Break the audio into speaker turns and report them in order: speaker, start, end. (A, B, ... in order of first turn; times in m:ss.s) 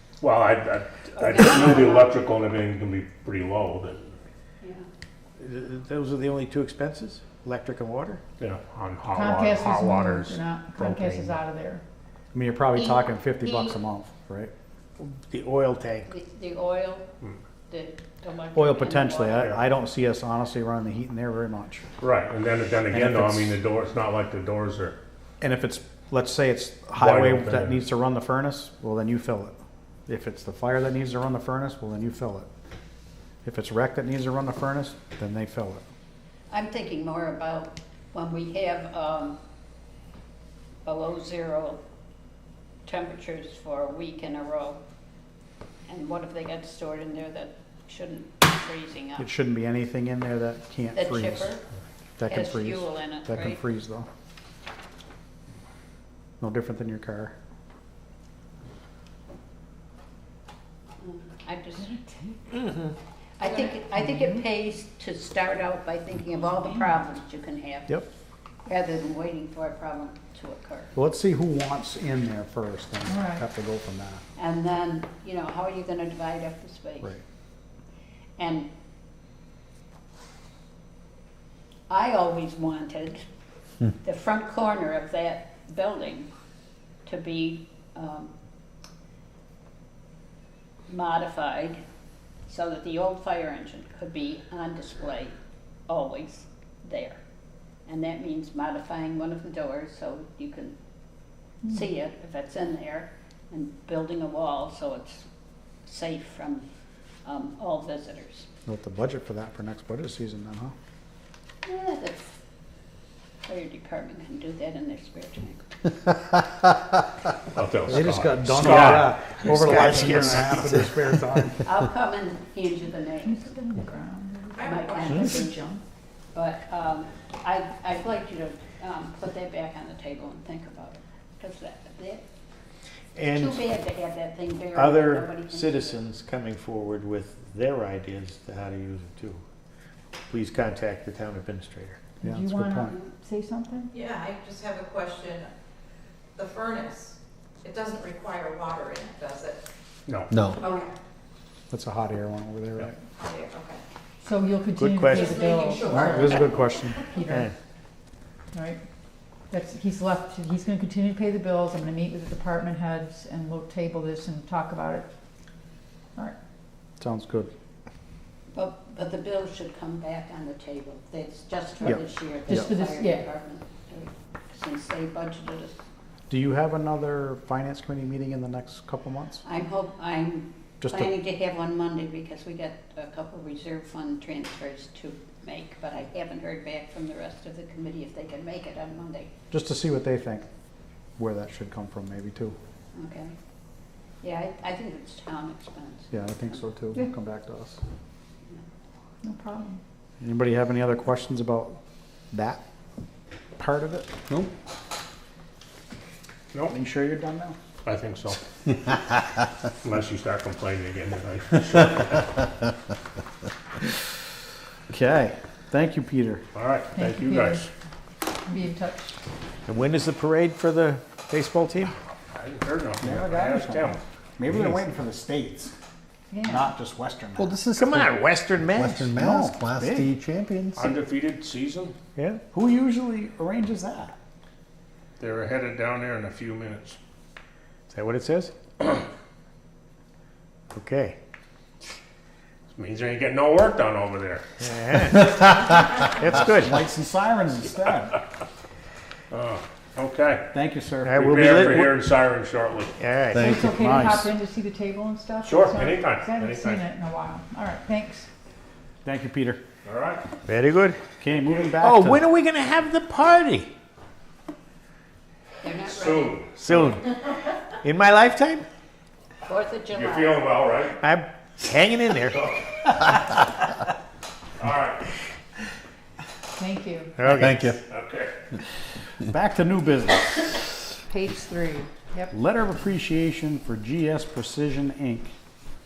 0:00.2-0:04.1 A
0:01.2-0:02.1 B
0:04.6-0:04.8 B
0:05.4-0:08.2 C
0:08.4-0:11.4 A
0:09.1-0:11.8 D
0:12.3-0:14.5 E
0:13.4-0:13.7 B
0:15.0-0:16.1 C
0:16.0-0:17.1 B
0:17.7-0:19.6 B
0:18.5-0:21.8 E
0:22.0-0:25.0 A
0:22.9-0:23.6 E
0:25.4-0:32.5 E
0:26.9-0:27.8 A
0:33.4-0:35.9 E
0:36.5-0:39.4 B
0:40.8-0:41.8 B
0:42.8-0:44.8 B
0:45.9-0:49.3 B
0:49.2-0:51.6 E
0:50.9-0:51.6 B
0:52.2-0:54.1 E
0:52.2-0:53.6 B
0:56.4-0:57.3 E
1:01.0-1:02.0 B
1:01.9-1:02.4 D
1:03.4-1:08.0 B
1:04.0-1:04.4 D
1:08.6-1:10.9 B
1:10.9-1:14.2 E
1:13.1-1:13.4 D
1:14.4-1:17.1 B
1:18.4-1:18.7 B
1:21.9-1:23.3 B
1:24.0-1:26.3 B
1:27.0-1:28.3 B
1:30.9-1:31.8 B
1:32.5-1:35.4 B
1:35.9-1:37.2 B
1:37.8-1:40.8 B
1:41.7-1:45.2 B
1:45.8-1:46.7 B
1:47.2-1:48.5 B
1:48.6-1:50.7 E
1:51.6-1:52.4 B
1:53.4-1:55.8 B
1:57.5-2:00.1 A
1:57.9-2:01.6 E
1:59.6-2:00.6 C
1:59.8-2:00.3 F
2:01.6-2:03.5 B
2:03.2-2:05.8 D
2:04.6-2:05.2 G
2:04.6-2:05.6 B
2:06.3-2:12.2 B
2:13.2-2:13.6 C
2:13.3-2:16.0 B
2:14.7-2:19.4 C
2:20.3-2:22.0 C
2:22.2-2:23.9 D
2:22.2-2:22.9 E
2:23.9-2:25.5 G
2:26.4-2:29.6 G
2:30.3-2:30.6 F
2:30.4-2:30.9 G
2:31.7-2:33.0 E
2:33.2-2:33.8 G
2:34.2-2:36.3 D
2:34.8-2:35.2 C
2:35.0-2:37.0 G
2:35.9-2:37.0 E
2:37.1-2:37.5 D
2:38.5-2:38.8 D
2:39.5-2:45.1 D
2:47.0-2:47.5 E
2:48.5-2:55.8 B
2:51.8-2:52.7 E
2:52.5-2:53.3 D
2:56.3-2:59.4 E
2:59.4-3:09.3 B
3:00.8-3:01.1 E
3:09.5-3:10.4 E
3:11.2-3:12.6 E
3:12.9-3:13.3 B
3:14.2-3:16.6 B
3:16.1-3:17.8 E
3:19.2-3:19.8 D
3:20.2-3:21.8 E
3:22.3-3:22.6 E
3:23.6-3:24.1 E
3:26.7-3:27.6 E
3:27.8-3:28.4 A
3:29.8-3:32.3 A
3:34.9-3:36.4 E
3:36.5-3:37.7 A
3:37.0-3:37.6 D
3:38.4-3:39.2 D
3:39.7-3:41.9 C
3:42.3-3:44.0 A
3:43.0-3:45.7 E
3:46.3-3:46.7 D
3:46.4-3:47.8 E
3:47.4-3:50.9 F
3:47.8-3:49.1 C
3:49.1-3:50.1 E
3:50.7-3:51.9 A
3:52.5-3:54.2 E
3:55.2-3:57.0 A
3:57.9-3:58.5 C
4:00.7-4:01.1 C
4:02.7-4:04.4 A
4:04.6-4:05.4 C
4:06.2-4:06.7 C
4:06.2-4:08.2 E
4:09.3-4:10.4 A
4:10.5-4:11.9 E
4:11.1-4:12.9 A
4:11.1-4:11.9 C
4:13.0-4:13.4 C
4:13.3-4:13.9 F
4:13.4-4:14.3 E
4:13.4-4:18.3 D
4:15.4-4:16.8 A
4:19.0-4:19.6 E
4:19.8-4:20.2 A
4:20.5-4:21.0 C
4:21.2-4:22.3 E
4:21.8-4:23.7 C
4:25.6-4:26.4 B
4:25.8-4:26.8 A
4:26.6-4:27.1 C
4:27.8-4:28.6 C
4:29.4-4:30.4 B
4:29.9-4:31.0 A
4:31.0-4:32.4 C
4:32.2-4:33.0 A
4:34.6-4:35.1 A
4:36.5-4:37.2 D
4:37.2-4:37.6 C
4:37.2-4:37.8 F
4:37.9-4:38.3 A
4:39.2-4:40.5 E
4:41.1-4:42.3 D
4:42.3-4:45.3 E